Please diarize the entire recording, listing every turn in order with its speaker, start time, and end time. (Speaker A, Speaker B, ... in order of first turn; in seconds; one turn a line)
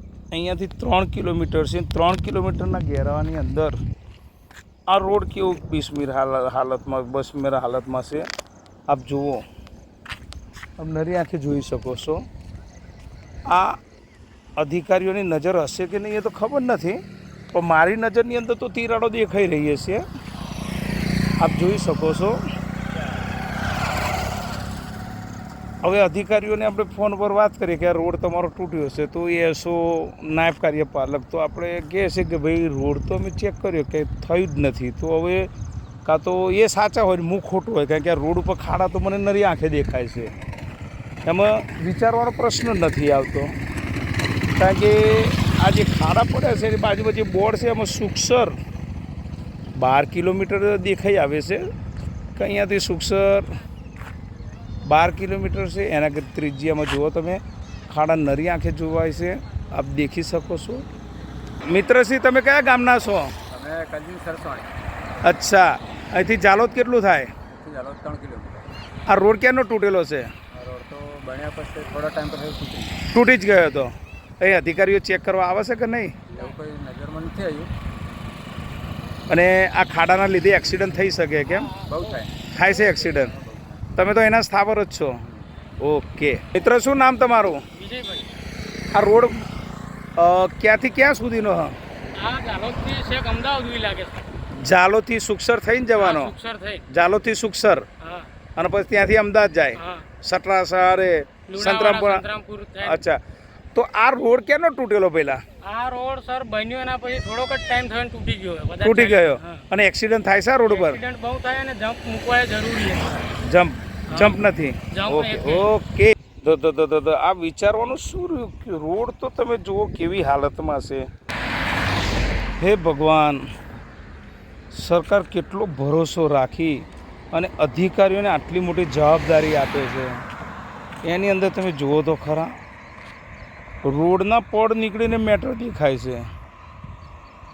Speaker A: 0.3-3.8
Speaker A: 4.9-8.3
Speaker A: 8.9-9.4
Speaker A: 10.8-12.2
Speaker A: 13.5-13.8
Speaker A: 14.6-17.0
Speaker A: 17.5-20.1
Speaker A: 21.4-22.4
Speaker A: 25.8-35.5
Speaker A: 36.0-40.3
Speaker A: 41.3-43.6
Speaker A: 44.6-48.5
Speaker A: 49.8-51.7
Speaker A: 52.3-53.6
Speaker A: 54.8-60.8
Speaker A: 61.7-63.3
Speaker B: 63.5-64.7
Speaker A: 65.2-67.3
Speaker B: 67.5-68.7
Speaker A: 69.1-70.3
Speaker B: 70.5-73.0
Speaker A: 73.1-76.2
Speaker B: 76.3-77.7
Speaker A: 79.3-81.7
Speaker C: 81.5-82.0
Speaker B: 81.8-83.9
Speaker A: 82.5-83.3
Speaker A: 84.0-85.2
Speaker B: 85.2-85.5
Speaker A: 85.8-87.6
Speaker C: 87.7-88.3
Speaker A: 88.9-89.5
Speaker A: 90.2-91.8
Speaker C: 92.1-94.2
Speaker A: 94.5-96.3
Speaker C: 96.0-96.8
Speaker A: 96.9-97.9
Speaker C: 98.0-98.3
Speaker A: 98.6-102.2
Speaker C: 99.8-100.1
Speaker C: 101.5-103.0
Speaker A: 102.8-103.2
Speaker A: 103.7-105.4
Speaker C: 105.6-109.6
Speaker A: 108.8-111.0
Speaker C: 110.6-113.3
Speaker A: 113.4-121.0
Speaker C: 114.1-115.7
Speaker A: 122.6-123.4
Speaker A: 124.7-130.2
Speaker A: 131.0-132.5
Speaker A: 133.8-136.2